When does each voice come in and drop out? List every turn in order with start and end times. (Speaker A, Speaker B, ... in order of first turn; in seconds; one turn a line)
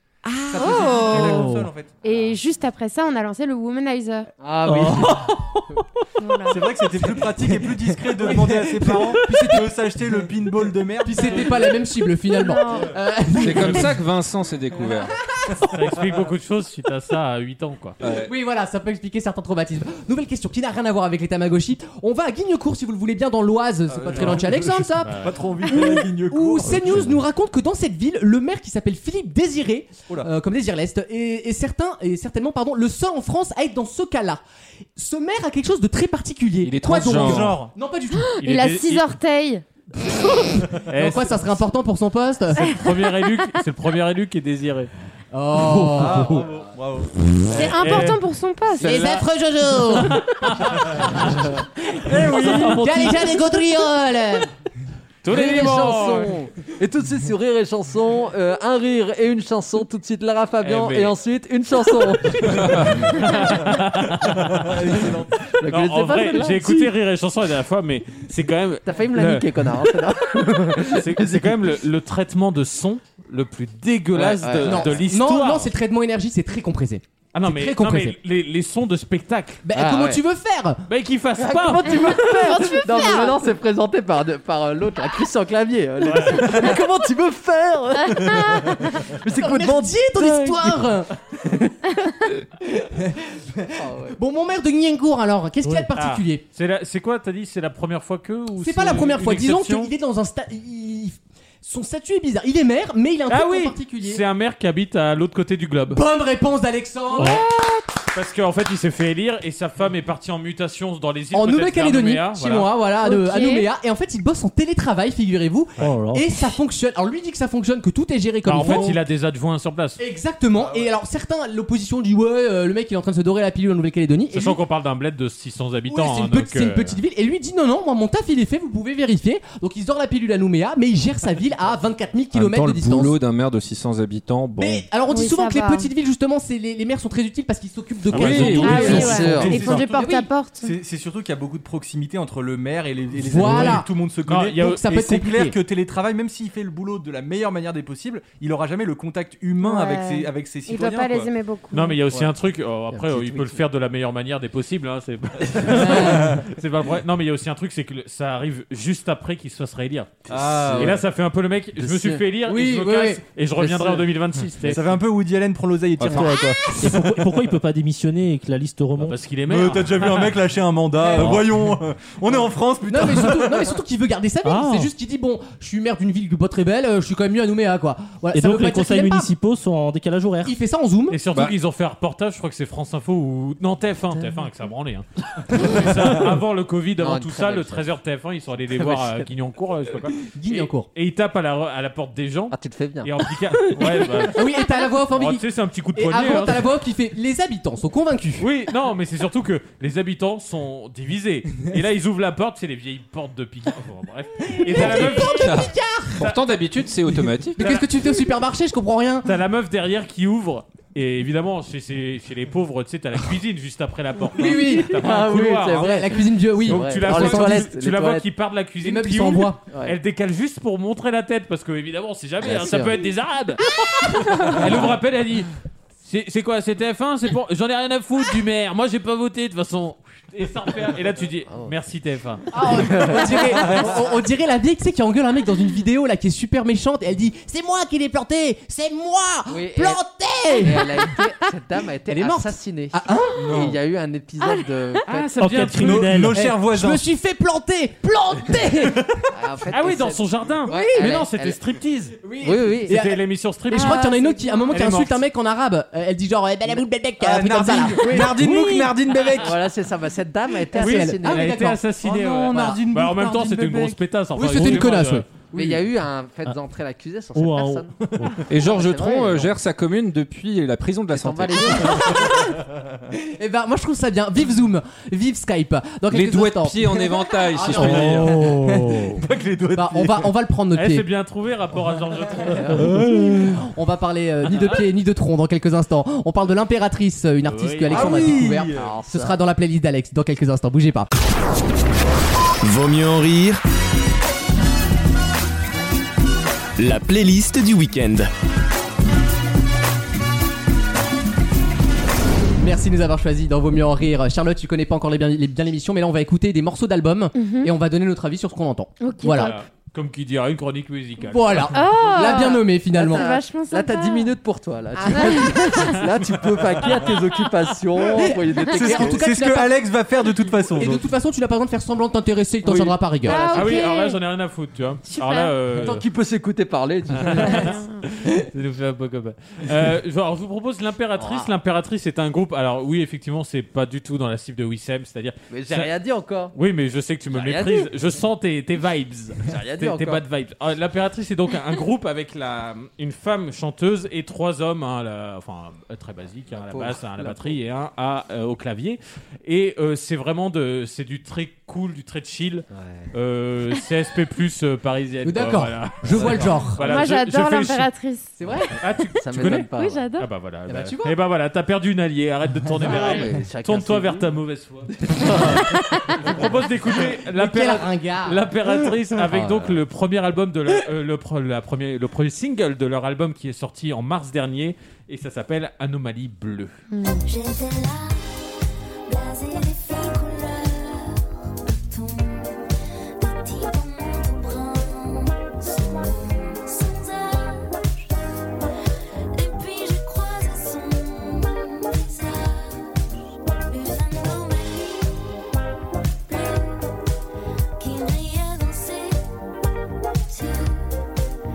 Speaker A: 0.4-1.4
Speaker B: 0.5-2.0
Speaker C: 0.6-1.1
Speaker D: 1.1-1.7
Speaker A: 2.0-4.3
Speaker E: 2.1-2.3
Speaker E: 4.4-5.4
Speaker D: 4.6-5.6
Speaker A: 6.2-6.6
Speaker B: 6.5-11.8
Speaker C: 8.2-9.7
Speaker C: 11.0-13.9
Speaker A: 12.3-12.9
Speaker F: 13.4-15.1
Speaker G: 15.6-18.0
Speaker F: 18.0-18.3
Speaker C: 18.2-34.4
Speaker B: 23.9-27.1
Speaker G: 25.0-25.4
Speaker C: 35.0-38.3
Speaker F: 36.6-37.6
Speaker B: 37.0-37.7
Speaker A: 38.1-39.6
Speaker G: 38.4-39.1
Speaker C: 40.8-42.7
Speaker G: 40.9-41.4
Speaker G: 42.7-44.9
Speaker C: 45.3-46.4
Speaker B: 45.9-47.6
Speaker A: 47.5-49.1
Speaker G: 47.6-48.2
Speaker C: 48.8-50.2
Speaker G: 48.8-49.1
Speaker G: 49.9-51.3
Speaker C: 51.8-54.5
Speaker B: 52.1-52.8
Speaker G: 52.2-52.8
Speaker D: 52.4-53.1
Speaker G: 55.2-56.4
Speaker E: 55.3-63.6
Speaker C: 55.3-56.0
Speaker G: 60.6-61.1
Speaker G: 62.4-65.1
Speaker B: 64.2-65.6
Speaker E: 65.5-66.9
Speaker G: 65.7-70.1
Speaker E: 68.8-71.7
Speaker G: 70.8-75.7
Speaker E: 74.1-75.0
Speaker C: 74.6-78.2
Speaker G: 77.3-79.6
Speaker C: 79.6-80.8
Speaker E: 79.7-80.2
Speaker G: 80.9-82.2
Speaker E: 81.4-90.9
Speaker A: 82.2-83.3
Speaker G: 86.0-86.7
Speaker A: 88.2-88.5
Speaker B: 88.3-88.8
Speaker C: 89.4-91.1
Speaker E: 91.4-91.7
Speaker C: 92.6-96.4
Speaker E: 93.7-94.2
Speaker G: 96.0-99.9
Speaker C: 98.6-104.2
Speaker G: 103.3-106.0
Speaker C: 105.9-107.4
Speaker A: 107.1-107.8
Speaker G: 107.2-107.4
Speaker G: 108.1-112.7
Speaker C: 111.3-119.0
Speaker A: 113.0-113.7
Speaker D: 115.8-116.2
Speaker G: 118.5-120.0
Speaker C: 120.0-124.6
Speaker B: 120.5-120.9
Speaker G: 124.3-127.0
Speaker C: 125.9-133.2
Speaker F: 132.3-134.9
Speaker C: 134.6-140.3
Speaker A: 135.1-135.9
Speaker F: 138.1-139.4
Speaker G: 138.1-139.0
Speaker B: 138.3-151.3
Speaker A: 138.5-140.7
Speaker E: 138.6-139.8
Speaker C: 143.2-143.9
Speaker G: 144.3-144.8
Speaker C: 144.6-145.6
Speaker A: 149.6-152.0
Speaker G: 151.7-160.2
Speaker E: 152.9-153.6
Speaker C: 155.7-156.3
Speaker E: 160.3-161.0
Speaker B: 160.3-161.0
Speaker G: 160.7-164.9
Speaker E: 161.8-162.2
Speaker C: 162.4-163.8
Speaker B: 164.7-166.7
Speaker F: 166.0-166.4
Speaker D: 166.0-169.2
Speaker G: 169.0-170.4
Speaker B: 169.5-173.7
Speaker C: 171.0-171.4
Speaker C: 172.9-179.3
Speaker D: 174.4-174.9
Speaker D: 178.3-180.6
Speaker C: 180.4-181.2
Speaker G: 181.1-196.7
Speaker E: 185.6-185.9
Speaker E: 187.0-187.8
Speaker E: 188.7-189.3
Speaker C: 190.3-190.9
Speaker E: 192.5-193.1
Speaker C: 194.3-198.5
Speaker G: 198.4-205.6
Speaker C: 204.5-206.2
Speaker F: 204.8-207.7
Speaker G: 206.2-206.5
Speaker C: 207.6-209.3
Speaker G: 207.6-207.9
Speaker G: 209.2-223.7
Speaker C: 214.3-215.0
Speaker E: 214.4-218.2
Speaker C: 215.8-217.7
Speaker C: 218.8-219.6
Speaker E: 222.4-223.1
Speaker A: 224.2-224.5
Speaker E: 224.4-224.9
Speaker G: 224.4-225.5
Speaker G: 226.0-232.5
Speaker C: 232.5-241.2
Speaker E: 232.6-234.0
Speaker E: 239.5-240.0
Speaker E: 240.6-245.3
Speaker C: 242.1-243.4
Speaker B: 243.3-243.8
Speaker A: 244.4-245.0
Speaker G: 245.1-246.1
Speaker D: 245.3-246.4
Speaker B: 245.8-247.0
Speaker C: 246.3-249.0
Speaker B: 248.9-249.3
Speaker E: 249.3-251.6
Speaker G: 249.7-252.2
Speaker C: 250.7-251.2
Speaker C: 252.2-258.9
Speaker E: 252.4-253.0
Speaker G: 252.9-254.0
Speaker A: 253.7-254.8
Speaker G: 254.7-255.1
Speaker B: 257.2-259.6
Speaker E: 259.4-261.6
Speaker C: 260.7-261.8
Speaker G: 260.8-265.2
Speaker B: 262.0-264.0
Speaker C: 262.5-262.8
Speaker C: 264.3-265.3
Speaker D: 264.6-264.9
Speaker E: 265.5-269.5
Speaker D: 267.3-268.4
Speaker B: 268.0-268.4
Speaker F: 268.5-272.1
Speaker E: 271.1-272.5
Speaker B: 272.4-272.8
Speaker C: 273.1-278.6
Speaker F: 276.1-278.4
Speaker B: 277.8-278.5
Speaker D: 277.8-279.2
Speaker B: 279.1-280.3
Speaker C: 279.7-281.0
Speaker G: 280.7-282.9
Speaker E: 282.5-282.9
Speaker D: 282.9-283.4
Speaker C: 282.9-291.1
Speaker G: 284.4-284.8
Speaker G: 287.4-288.4
Speaker B: 287.9-289.0
Speaker E: 288.6-289.4
Speaker H: 292.6-293.6
Speaker H: 296.8-298.3
Speaker C: 302.6-309.5
Speaker A: 307.3-307.7
Speaker A: 309.0-309.5
Speaker G: 309.3-311.8
Speaker C: 311.3-313.2
Speaker A: 311.7-314.3
Speaker E: 312.3-319.2
Speaker A: 315.0-316.0
Speaker C: 318.2-319.8
Speaker B: 318.7-321.1
Speaker C: 320.7-323.5
Speaker E: 322.6-323.7
Speaker A: 323.2-324.2
Speaker G: 323.5-326.0
Speaker A: 325.1-325.5
Speaker E: 325.7-327.8
Speaker G: 327.1-335.9
Speaker A: 327.4-328.0
Speaker E: 331.2-331.5
Speaker E: 335.5-336.5
Speaker G: 336.5-357.9
Speaker E: 337.3-337.9
Speaker E: 339.5-340.2
Speaker E: 346.5-347.6
Speaker E: 352.7-353.1
Speaker C: 355.2-356.8
Speaker B: 356.1-356.7
Speaker A: 356.8-358.4
Speaker C: 358.4-358.7
Speaker G: 358.8-365.5
Speaker E: 359.2-360.1
Speaker A: 359.7-360.3
Speaker C: 360.7-361.1
Speaker E: 362.8-364.3
Speaker E: 364.9-366.5
Speaker A: 365.6-366.1
Speaker G: 366.2-376.7
Speaker C: 367.3-368.4
Speaker E: 369.2-369.8
Speaker A: 376.9-377.2
Speaker I: 377.2-388.1
Speaker I: 389.3-393.0
Speaker I: 393.7-395.4
Speaker I: 396.3-397.0
Speaker I: 397.8-399.2
Speaker I: 400.3-400.9